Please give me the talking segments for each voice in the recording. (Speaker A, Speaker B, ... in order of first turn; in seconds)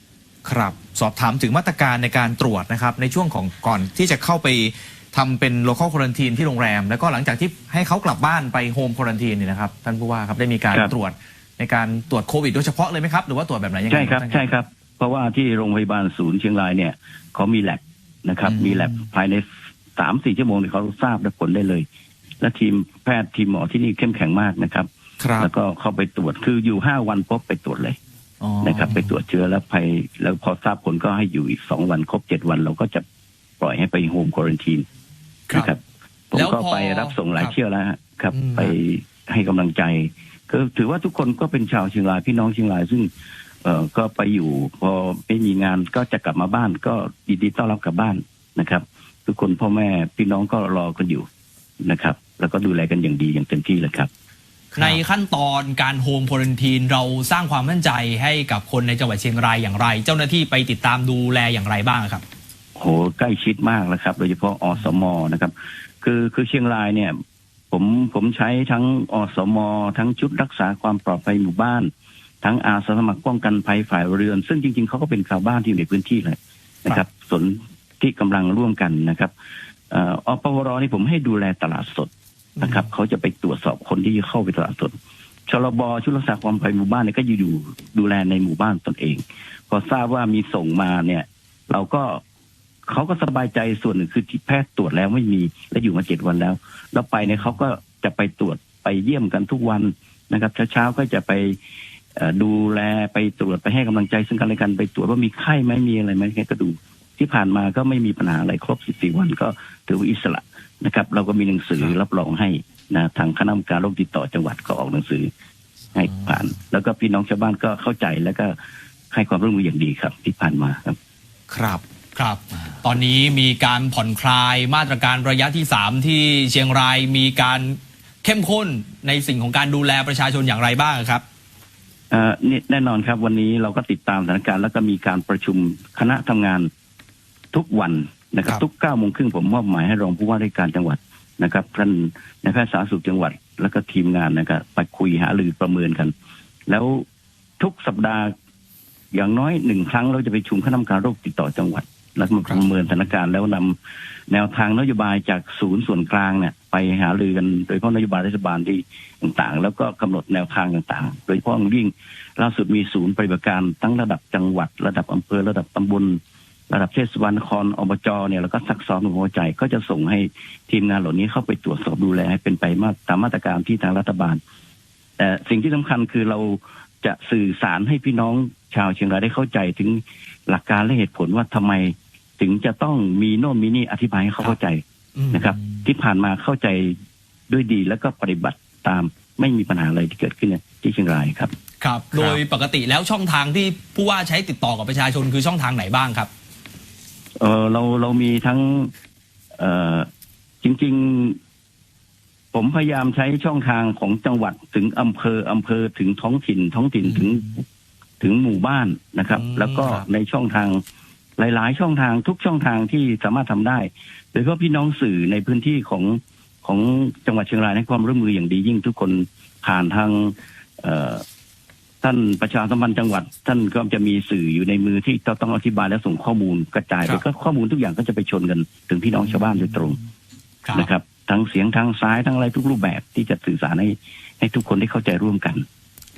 Speaker A: 0.4-14.5, 18.4-18.9, 25.2-25.5, 28.4-29.0, 54.7-55.0, 121.5-121.8, 192.1-192.4
Speaker B: 13.9-19.4, 20.0-21.9, 22.4-24.9, 25.4-28.0, 28.6-33.0, 33.6-34.8, 35.5-35.8, 36.3-43.1, 43.6-51.2, 51.8-54.1, 62.8-67.2, 67.7-71.9, 72.4-79.3, 79.9-82.1, 82.6-85.0, 85.5-92.2, 92.9-101.6, 102.2-115.3, 115.9-118.5, 119.1-121.0, 132.1-136.7, 137.5-146.1, 146.7-147.0, 147.6-148.3, 149.1-153.8, 154.3-166.2, 166.7-174.4, 175.2-186.9, 187.5-191.5, 197.4-198.9, 199.6-200.1, 200.6-201.4, 202.5-207.6, 208.2-210.8, 211.4-221.2, 222.0-230.0, 230.7-235.6
Speaker C: 36.3-37.5, 38.3-38.7, 54.8-62.2, 82.6-82.9, 122.1-131.2, 152.5-152.7, 185.2-185.5, 191.8-196.3, 209.3-210.0, 230.6-230.9